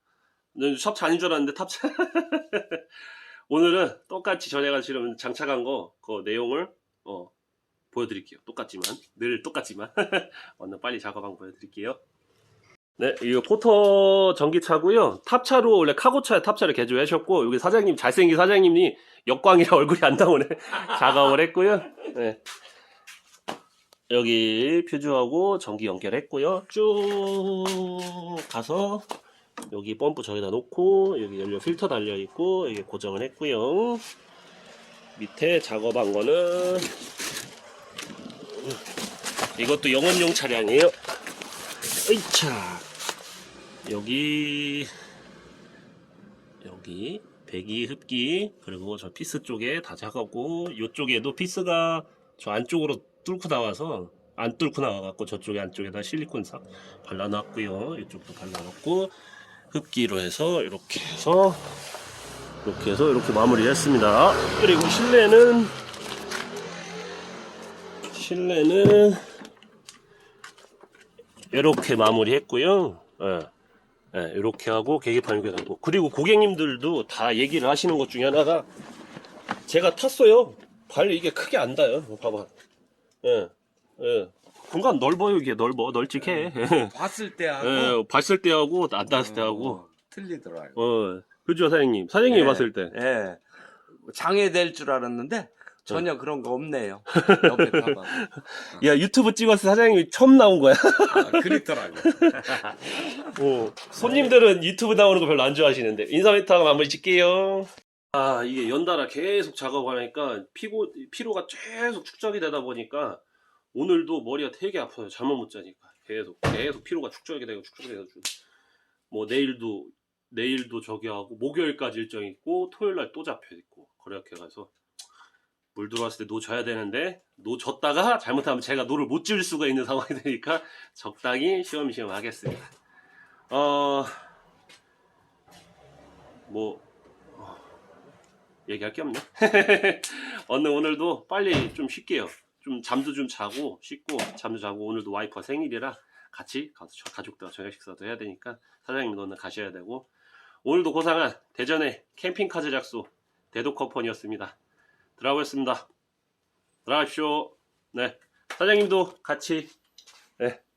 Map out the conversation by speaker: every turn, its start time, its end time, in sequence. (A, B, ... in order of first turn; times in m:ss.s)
0:00.5-0:02.8 A
0:03.5-0:07.3 A
0:07.9-0:12.0 A
0:13.0-0:22.4 A
0:24.1-0:29.1 A
0:29.7-0:34.0 A
0:35.2-0:36.9 A
0:39.6-0:40.9 A
0:42.0-0:42.8 A
0:43.8-0:44.9 A
0:46.6-0:59.1 A
0:59.7-1:01.6 A
1:02.6-1:05.7 A
1:08.1-1:09.2 A
1:11.5-1:13.5 A
1:14.1-1:18.7 A
1:19.7-1:22.5 A
1:23.2-1:26.9 A
1:26.2-1:28.0 B
1:27.6-1:29.8 A
1:29.1-1:30.8 B
1:30.8-1:32.9 A
1:32.3-1:33.4 B
1:34.0-1:38.8 B
1:37.1-1:53.2 A
1:41.1-1:42.6 B
1:53.7-1:58.3 A
1:59.1-2:04.7 A
2:05.7-2:12.7 A
2:13.5-2:14.2 A
2:16.5-2:16.8 A
2:17.3-2:17.6 A
2:18.7-2:30.1 A
2:30.6-2:34.6 A
2:35.2-2:35.9 A
2:36.8-2:39.7 A